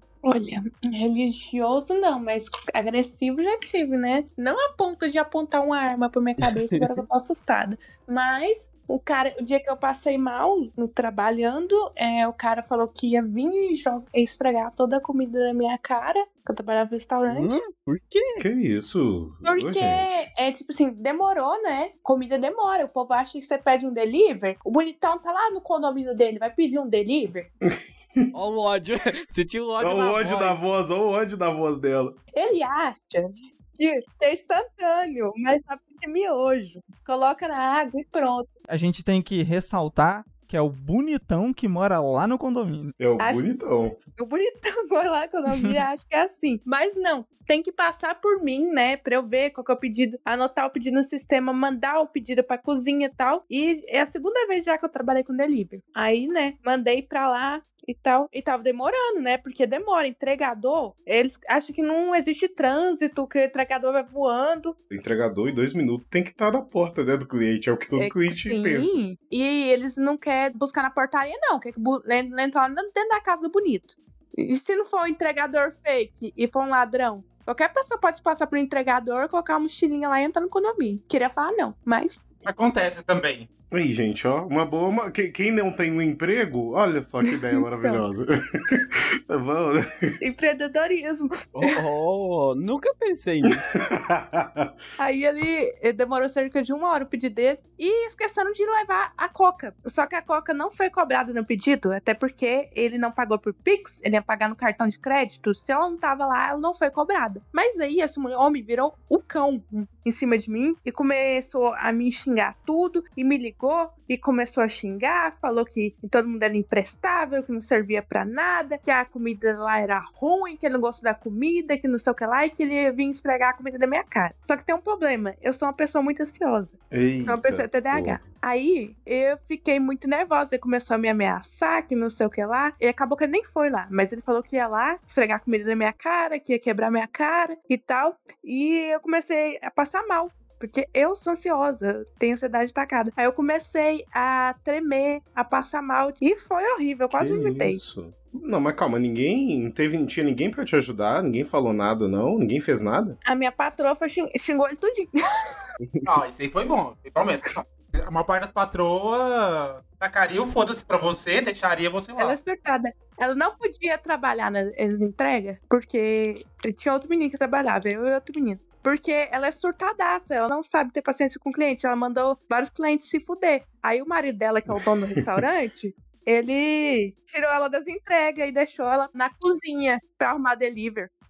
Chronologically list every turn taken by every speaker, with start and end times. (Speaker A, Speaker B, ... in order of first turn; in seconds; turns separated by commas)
Speaker A: 0.2-17.6, Speaker B: 17.3-18.4, Speaker C: 18.4-20.1, Speaker A: 19.4-27.5, Speaker C: 27.6-28.3, Speaker B: 28.3-30.7, Speaker C: 29.8-32.2, Speaker A: 32.3-38.5, Speaker D: 38.7-43.0, Speaker C: 43.0-44.0, Speaker A: 43.2-43.5, Speaker A: 44.1-64.7, Speaker C: 64.9-68.9, Speaker A: 68.0-82.2, Speaker E: 82.4-83.5, Speaker C: 83.7-90.2, Speaker A: 87.3-88.0, Speaker A: 90.2-91.8, Speaker B: 91.6-93.7, Speaker C: 93.5-94.7, Speaker A: 95.0-147.8, Speaker C: 126.9-128.3, Speaker C: 147.1-153.2, Speaker A: 153.2-155.6, Speaker E: 156.0-162.4, Speaker A: 162.2-181.1, Speaker C: 174.7-175.4